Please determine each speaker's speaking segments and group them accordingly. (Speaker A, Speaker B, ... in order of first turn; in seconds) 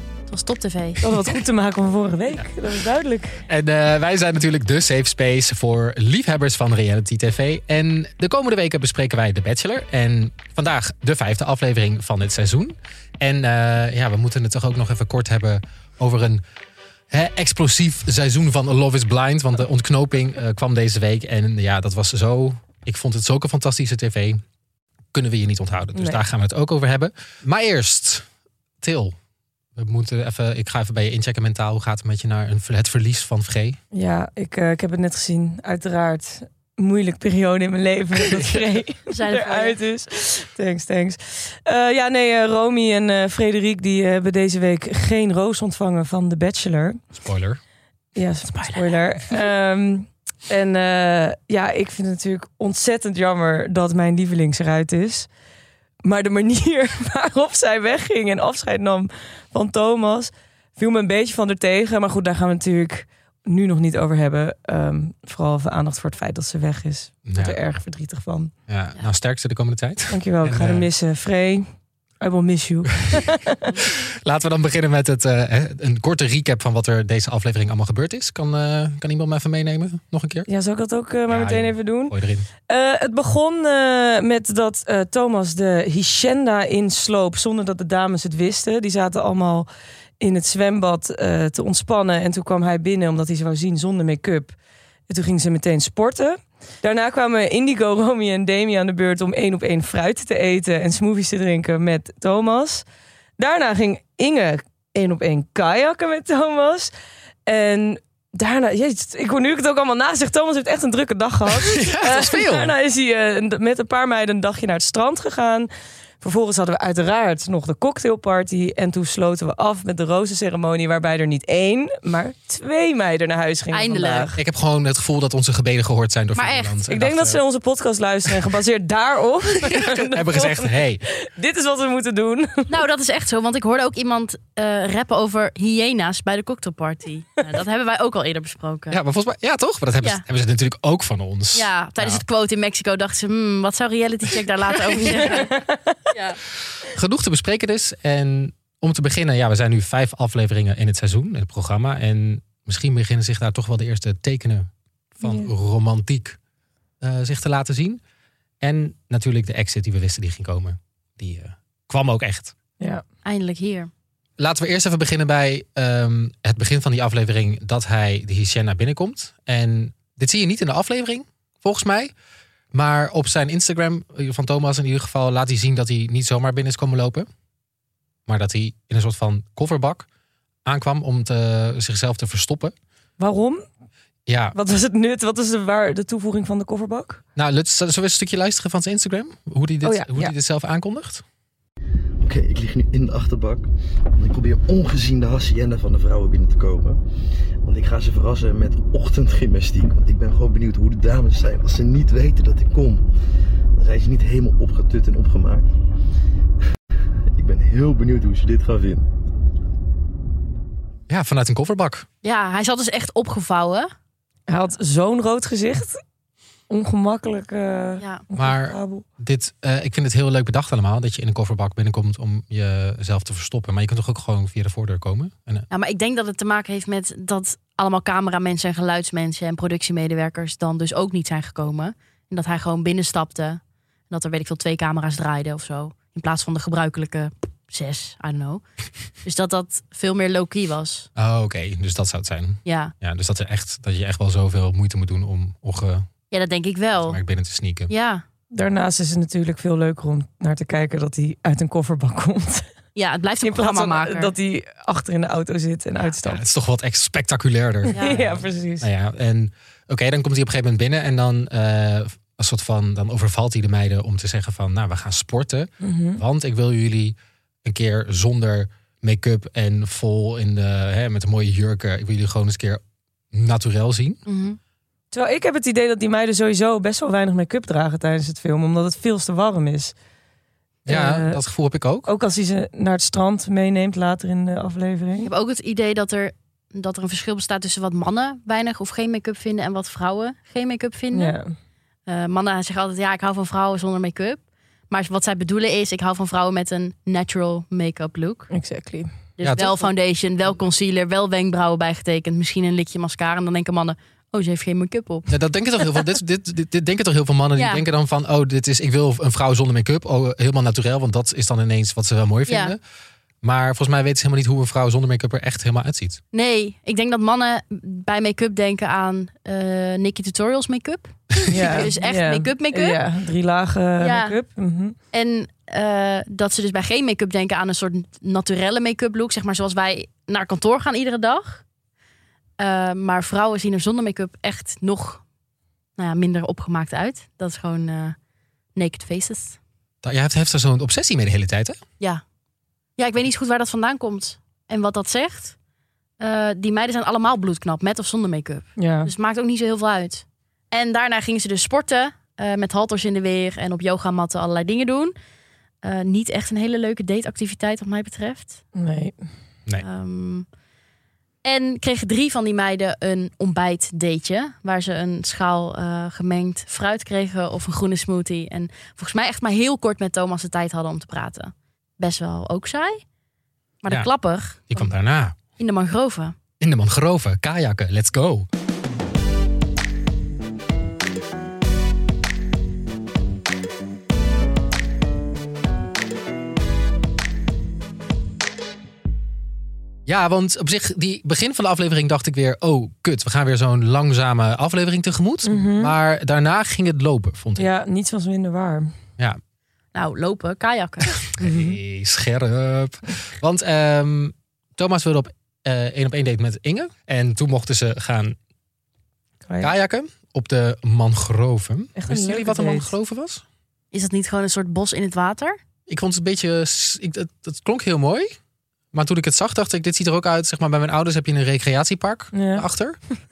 Speaker A: 0.3-1.1, 39.1-39.8, 48.5-49.0, 123.7-124.3, 126.3-126.8, 132.7-139.0, 141.5-145.6, 146.1-146.4, 163.2-163.9, 212.2-213.9, 225.7-238.6, 239.2-241.1, 242.7-242.9, 246.3-247.2, 247.9-248.2, 252.9-254.3, 274.3-274.6, 285.2-291.4, 292.1-298.5, 299.4-305.3, 307.5-307.8, 312.5-312.8, 316.3-323.0, 324.0-324.4, 325.1-331.6, 332.6-335.2, 336.0-338.1, 338.7-339.6, 343.0-345.5, 346.2-355.1, 355.8-358.6, 359.8-360.4, 361.4-373.0, 373.8-374.9, 375.6-376.4, 399.9-401.2, 413.9-415.6
Speaker B: 1.0-3.4, 33.9-47.0, 48.1-55.3, 56.0-68.5, 70.1-71.7, 72.2-73.7, 80.5-82.1, 82.7-89.7, 90.2-94.5, 95.1-102.8, 103.4-106.9, 107.5-115.7, 116.2-124.3, 126.9-132.7, 145.2-146.0, 155.2-155.5, 183.2-183.6, 184.5-187.2, 189.8-190.3, 214.5-216.0, 216.7-219.0, 248.5-252.7, 253.4-256.4, 257.9-258.9, 265.8-266.2, 275.1-279.9, 280.9-281.4, 282.1-285.3, 291.1-291.5, 298.5-299.1, 321.5-324.9, 348.8-349.1, 358.8-359.2, 395.4-395.9, 397.6-398.9, 401.4-401.8, 411.9-412.9, 422.3-422.6
Speaker C: 3.5-16.4, 17.1-24.4, 25.1-28.2, 28.8-29.1, 29.8-33.8, 38.1-38.8, 47.1-47.6, 67.2-67.6, 68.7-70.9, 73.8-80.5, 81.3-82.5, 111.5-112.7, 124.4-127.4, 129.6-131.0, 138.9-142.2, 144.9-145.3, 146.9-156.4, 157.0-158.0, 158.6-162.5, 164.4-172.1, 172.7-177.3, 178.3-180.1, 180.6-182.7, 184.2-184.6, 187.3-191.2, 211.1-212.1, 218.3-225.7, 241.2-246.1, 247.0-247.9, 256.2-272.8, 273.3-274.2, 280.9-282.1, 299.4-299.8, 305.3-312.8, 313.4-316.2, 321.5-321.8, 340.0-341.8, 374.7-375.4, 376.6-378.5, 390.1-397.7, 401.3-408.4, 409.6-413.4, 415.9-418.4, 418.9-423.0
Speaker D: 192.2-197.0, 197.6-203.0, 203.7-205.7, 207.3-209.1